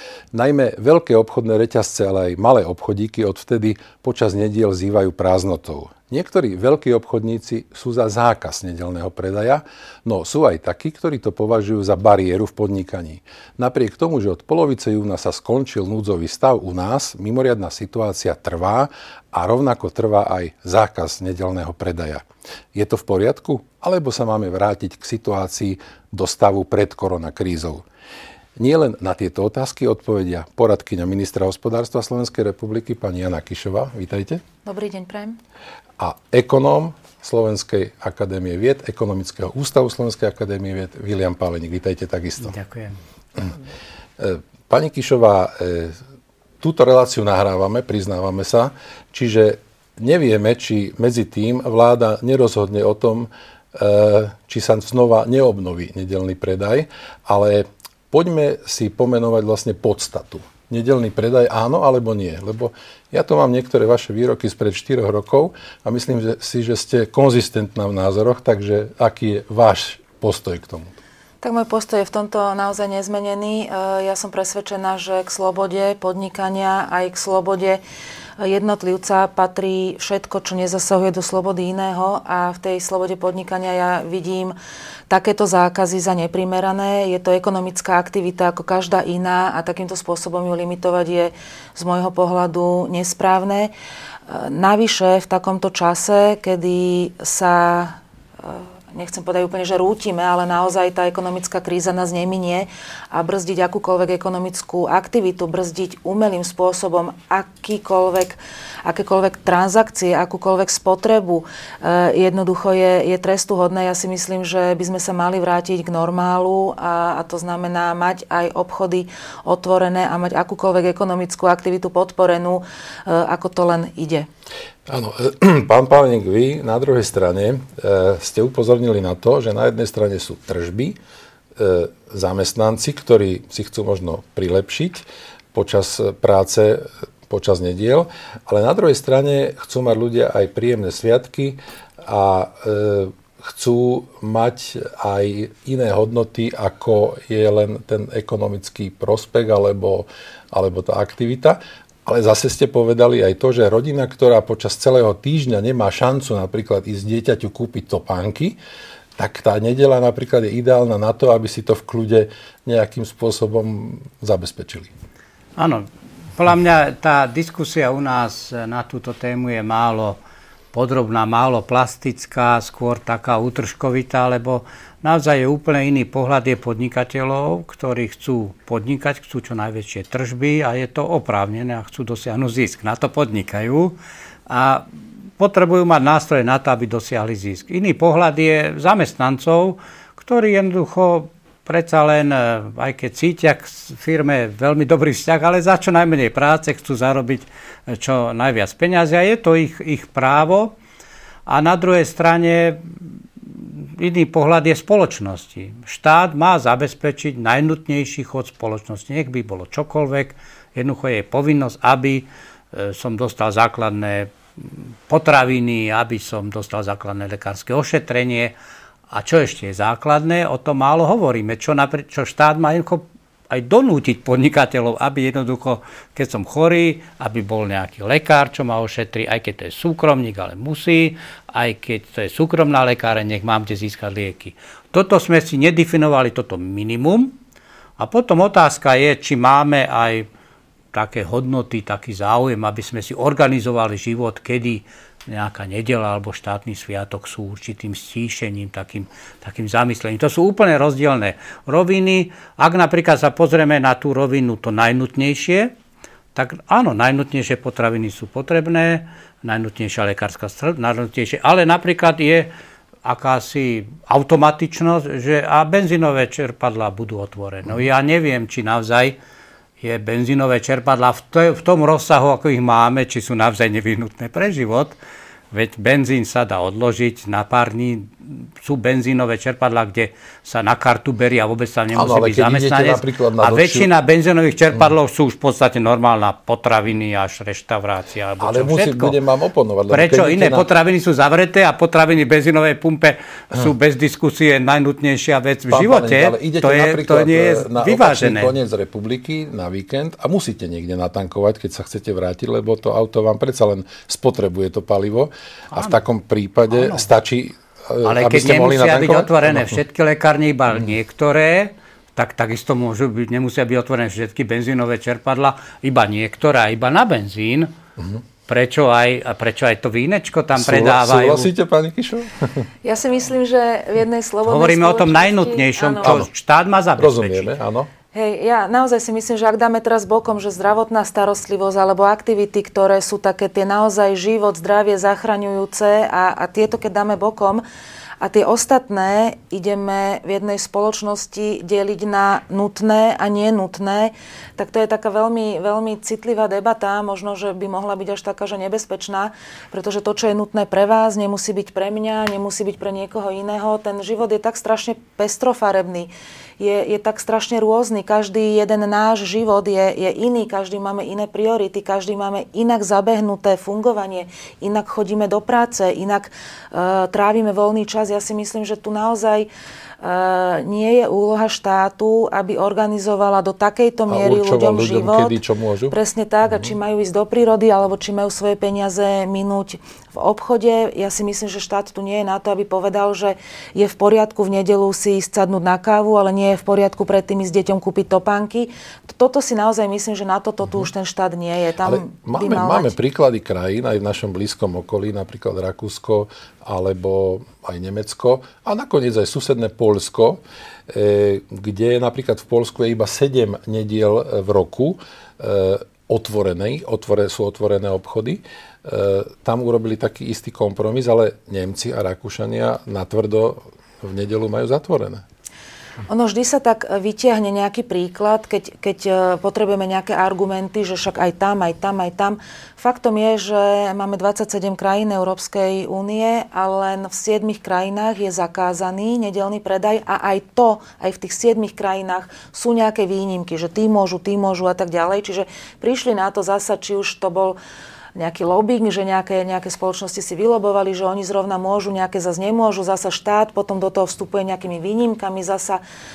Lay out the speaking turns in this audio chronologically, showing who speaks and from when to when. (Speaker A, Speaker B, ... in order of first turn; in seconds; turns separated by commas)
Speaker A: 0.3-27.8, Speaker A: 28.6-34.4, Speaker B: 34.6-35.4, Speaker A: 36.0-42.5, Speaker C: 42.4-43.0, Speaker A: 44.2-46.0, Speaker A: 46.6-70.9, Speaker B: 71.4-77.8, Speaker B: 78.4-84.5, Speaker B: 85.1-93.7, Speaker B: 94.3-124.3, Speaker A: 124.9-130.9, Speaker A: 131.6-135.0, Speaker A: 135.5-158.6, Speaker A: 159.2-164.9, Speaker C: 165.6-170.2, Speaker C: 170.7-183.9, Speaker C: 184.5-184.9, Speaker C: 185.4-200.7, Speaker C: 201.4-202.9, Speaker C: 203.4-218.5, Speaker C: 219.1-237.3, Speaker C: 238.0-240.3, Speaker C: 240.9-255.7, Speaker C: 256.3-262.5, Speaker C: 263.0-269.1, Speaker C: 269.8-274.9, Speaker C: 275.5-289.1, Speaker A: 281.9-283.9, Speaker A: 288.4-290.7, Speaker C: 289.9-298.5, Speaker A: 295.7-309.8, Speaker C: 305.7-306.0, Speaker C: 306.7-307.1, Speaker C: 308.0-317.7, Speaker C: 318.4-321.5, Speaker A: 320.5-322.7, Speaker B: 322.8-326.2, Speaker C: 324.4-327.5, Speaker A: 326.0-326.3, Speaker A: 327.0-327.9, Speaker B: 328.1-337.6, Speaker B: 338.2-369.5, Speaker B: 370.0-392.9, Speaker A: 374.1-375.9, Speaker A: 391.8-415.2, Speaker B: 416.1-437.6, Speaker B: 438.1-445.8